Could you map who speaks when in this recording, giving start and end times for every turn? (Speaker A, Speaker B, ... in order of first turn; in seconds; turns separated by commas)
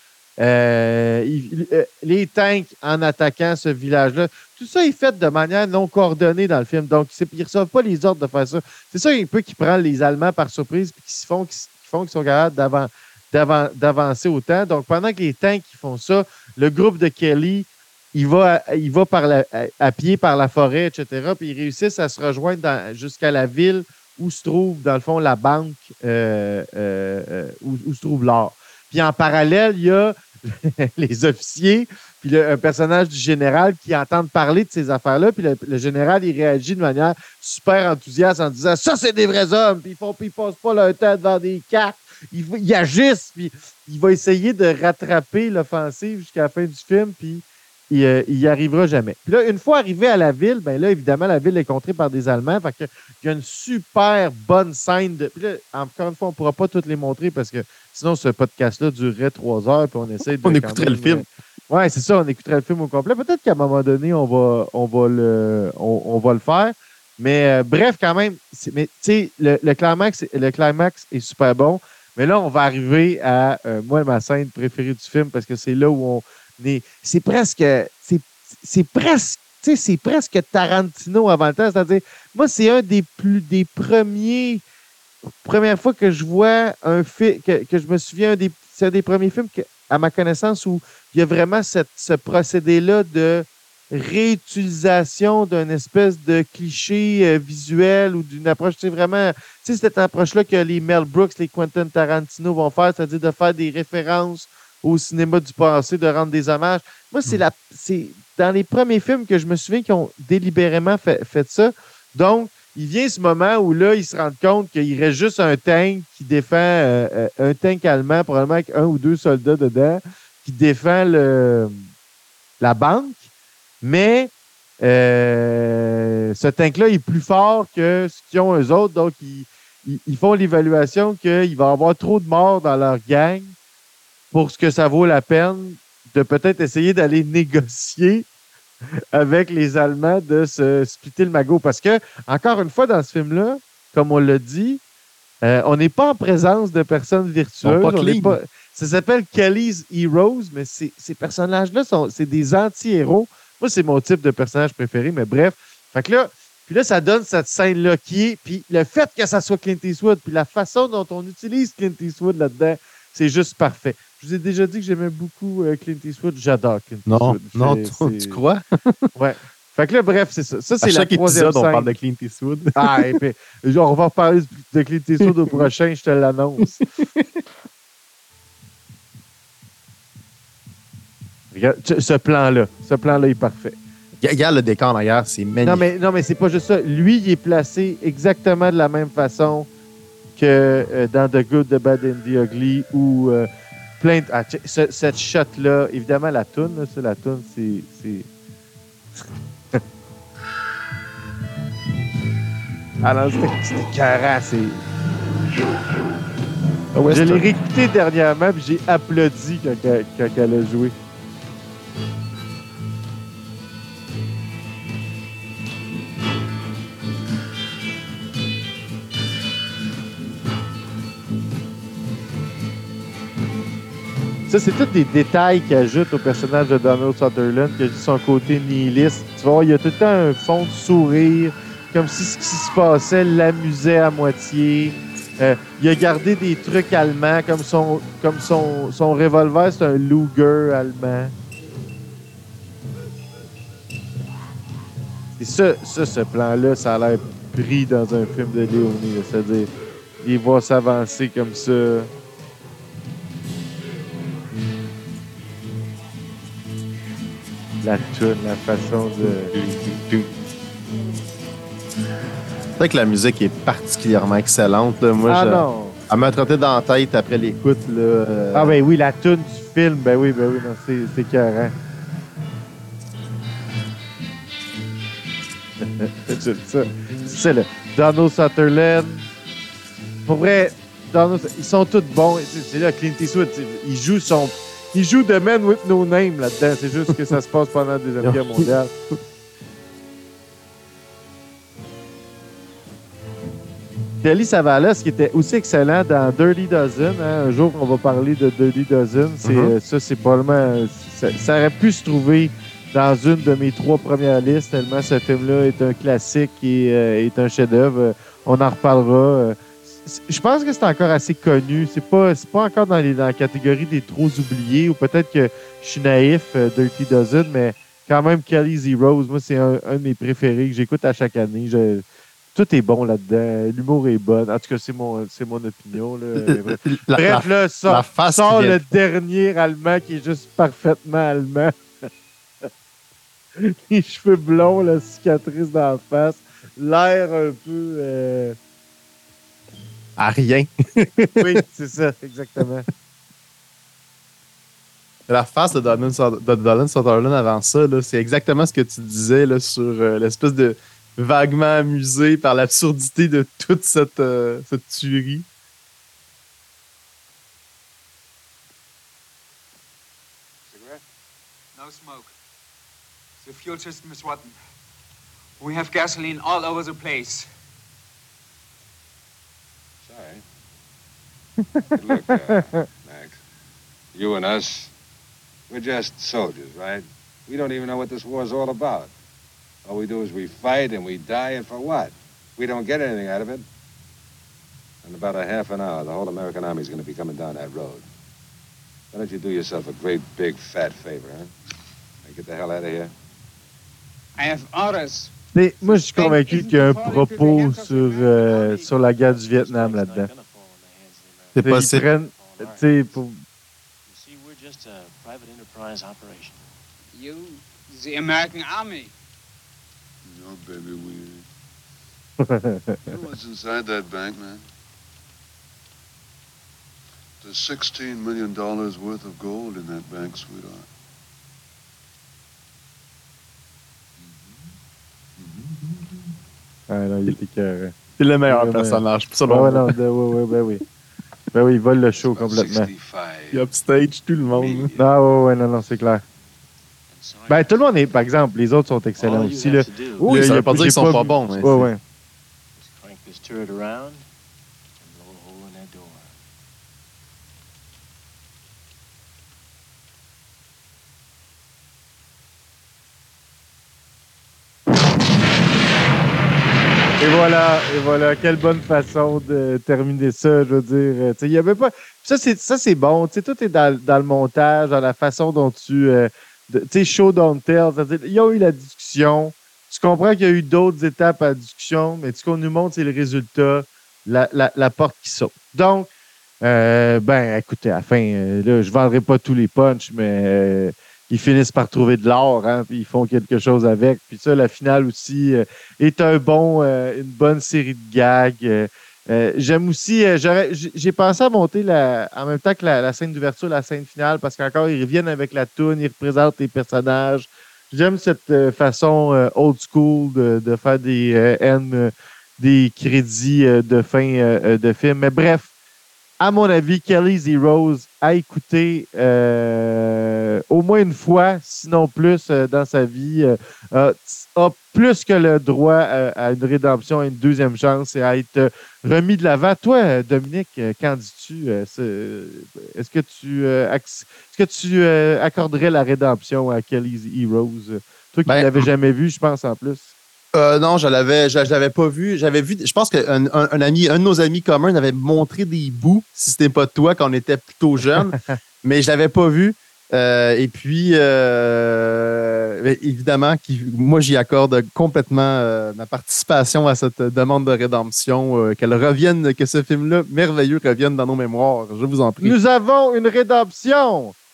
Speaker A: 0.4-84.6, Speaker B: 60.4-61.2, Speaker A: 85.4-121.7, Speaker A: 122.6-123.2, Speaker A: 123.8-133.5, Speaker A: 134.3-138.2, Speaker A: 139.1-144.8, Speaker A: 145.4-168.4, Speaker B: 147.6-148.4, Speaker B: 167.1-169.0, Speaker A: 169.1-171.9, Speaker B: 170.8-173.0, Speaker A: 172.8-176.8, Speaker A: 181.5-183.8, Speaker B: 184.2-185.8, Speaker A: 185.6-189.7, Speaker A: 190.3-193.5, Speaker A: 194.0-198.2, Speaker A: 203.0-204.8, Speaker B: 206.9-207.5, Speaker A: 207.1-210.9, Speaker A: 224.5-241.3, Speaker A: 245.4-249.7, Speaker A: 250.2-252.1, Speaker A: 257.8-259.5, Speaker B: 259.2-260.3, Speaker B: 262.8-268.8, Speaker A: 265.2-265.9, Speaker A: 268.5-271.7, Speaker A: 275.8-279.2, Speaker A: 280.2-288.9, Speaker B: 288.2-288.7, Speaker A: 294.2-331.7, Speaker B: 299.4-299.7, Speaker B: 326.4-328.8, Speaker A: 333.6-338.6, Speaker B: 340.2-341.6, Speaker A: 341.4-342.9, Speaker B: 345.3-355.4, Speaker C: 360.7-361.0, Speaker D: 361.8-362.3, Speaker D: 363.4-364.5, Speaker D: 365.6-367.5, Speaker C: 370.0-370.4, Speaker C: 371.9-373.4, Speaker A: 372.3-372.8, Speaker C: 374.1-374.9, Speaker C: 375.7-379.1, Speaker C: 379.9-383.6, Speaker C: 385.0-388.0, Speaker C: 389.1-391.5, Speaker C: 392.2-393.1, Speaker D: 394.4-395.3, Speaker A: 395.5-400.3, Speaker D: 395.8-398.1, Speaker E: 397.9-403.3, Speaker B: 401.5-402.0, Speaker A: 401.6-403.4, Speaker E: 404.1-406.6, Speaker D: 407.1-409.1, Speaker F: 410.2-411.4, Speaker A: 412.4-413.0, Speaker F: 413.1-414.6, Speaker F: 417.4-420.9, Speaker A: 426.9-427.9, Speaker B: 428.2-429.9, Speaker A: 428.5-430.8, Speaker A: 431.5-432.9, Speaker C: 432.4-433.6, Speaker B: 433.5-434.9, Speaker C: 434.6-434.9, Speaker A: 434.9-436.2, Speaker E: 437.1-438.1, Speaker A: 437.5-442.0, Speaker E: 439.2-441.1, Speaker B: 440.3-441.9, Speaker E: 442.8-444.2, Speaker E: 445.0-446.3, Speaker A: 457.2-476.1, Speaker A: 476.6-505.7, Speaker A: 506.4-530.1, Speaker B: 528.5-528.9, Speaker B: 530.5-552.5, Speaker A: 538.2-538.5, Speaker A: 552.4-554.3